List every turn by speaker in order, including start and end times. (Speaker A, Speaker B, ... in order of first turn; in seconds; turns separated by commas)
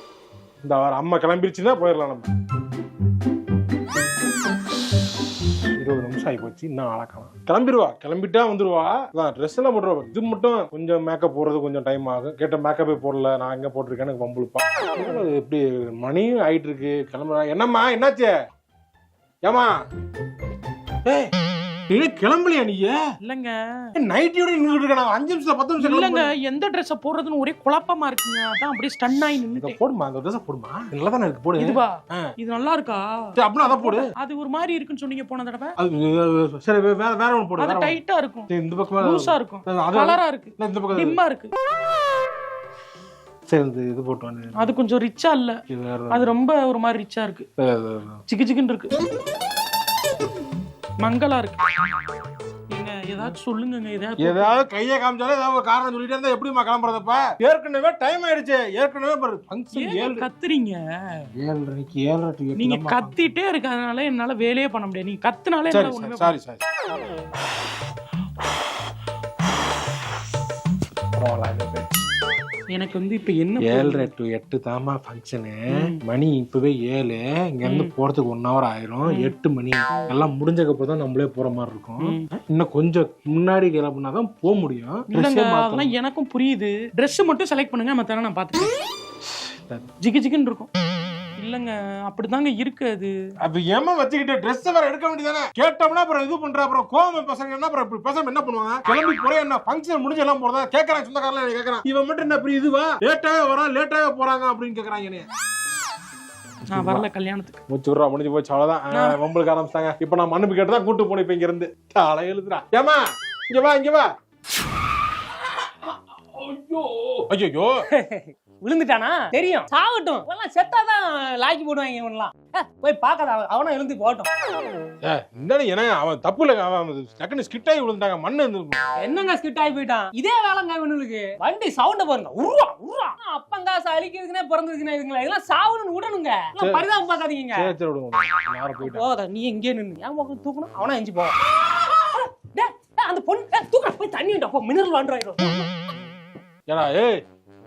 Speaker A: 0.6-2.3, Speaker A: 5.8-18.3, Speaker A: 21.0-21.3, Speaker A: 21.9-23.0, Speaker B: 23.2-23.9, Speaker A: 24.0-26.3, Speaker B: 25.8-29.8, Speaker A: 29.6-32.2, Speaker B: 31.6-33.0, Speaker A: 33.4-34.1, Speaker B: 33.7-35.7, Speaker A: 35.8-38.0, Speaker B: 37.6-38.5, Speaker A: 38.5-41.2, Speaker B: 39.0-41.5, Speaker A: 43.5-44.6, Speaker B: 44.6-45.6, Speaker A: 45.7-46.2, Speaker B: 46.1-47.4, Speaker A: 47.6-48.2, Speaker B: 48.3-48.9, Speaker B: 51.0-51.6, Speaker B: 52.7-54.5, Speaker A: 54.2-60.2, Speaker B: 59.7-61.2, Speaker A: 61.4-63.2, Speaker B: 62.6-66.3, Speaker A: 65.7-66.7, Speaker A: 71.2-72.0, Speaker B: 72.7-74.1, Speaker A: 73.6-85.9, Speaker B: 75.7-76.0, Speaker B: 77.6-77.9, Speaker B: 79.1-79.3, Speaker B: 82.0-82.3, Speaker B: 85.1-88.7, Speaker B: 90.0-90.7, Speaker B: 91.4-93.1, Speaker A: 93.4-105.3, Speaker B: 106.7-107.6, Speaker A: 106.7-107.0, Speaker A: 107.7-114.1, Speaker C: 115.9-117.2, Speaker A: 117.3-117.8, Speaker C: 117.9-124.3, Speaker A: 125.0-128.8, Speaker C: 129.0-137.7, Speaker A: 136.6-136.9, Speaker A: 137.5-139.1, Speaker C: 138.8-145.7, Speaker A: 146.7-147.2